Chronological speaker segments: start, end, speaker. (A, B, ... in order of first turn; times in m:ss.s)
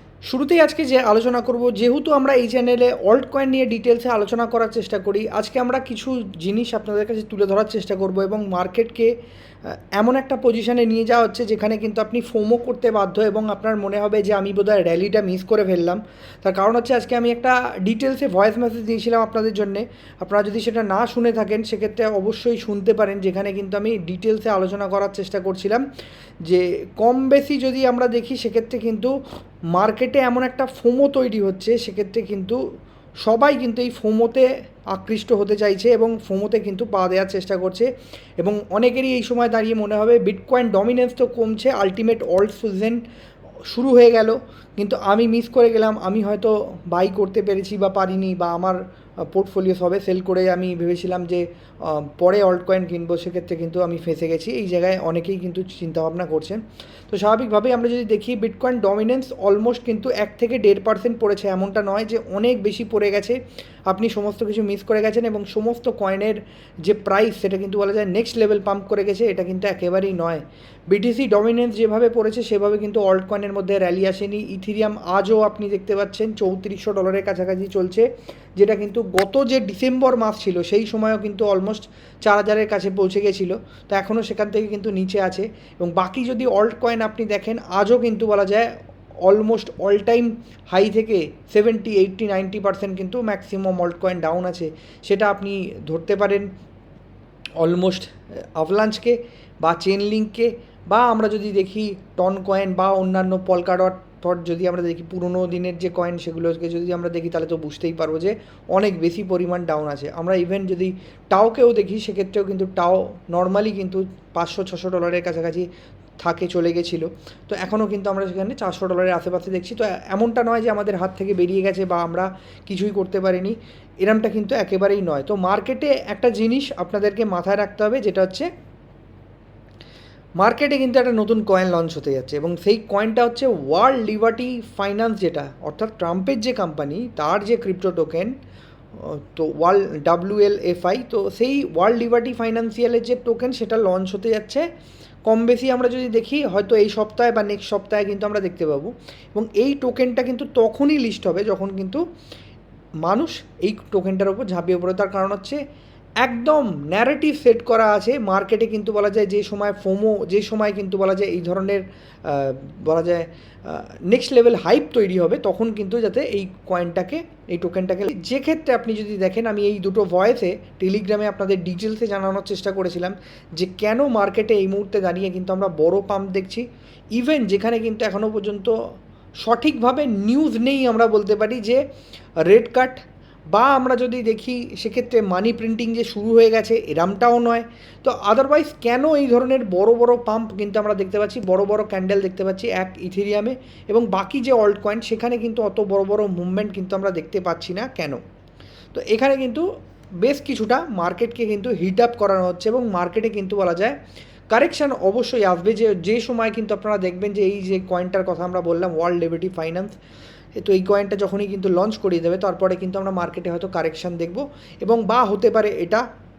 0:00.2-0:09.1 A
0:09.6-0:25.8 A
0:26.4-0:29.1 A
0:29.7-0:32.6 A
0:33.2-0:43.0 A
0:43.7-1:28.7 A
1:29.2-1:36.5 A
1:37.6-1:55.7 A
1:56.2-2:08.5 A
2:10.4-2:18.4 A
2:19.0-2:24.7 A
2:25.2-2:32.0 A
2:33.0-2:35.6 A
2:36.2-2:58.8 A
2:59.4-3:01.8 A
3:02.4-3:18.2 A
3:18.9-3:19.7 A
3:20.2-3:24.0 A
3:24.5-3:30.0 A
3:30.6-3:36.0 A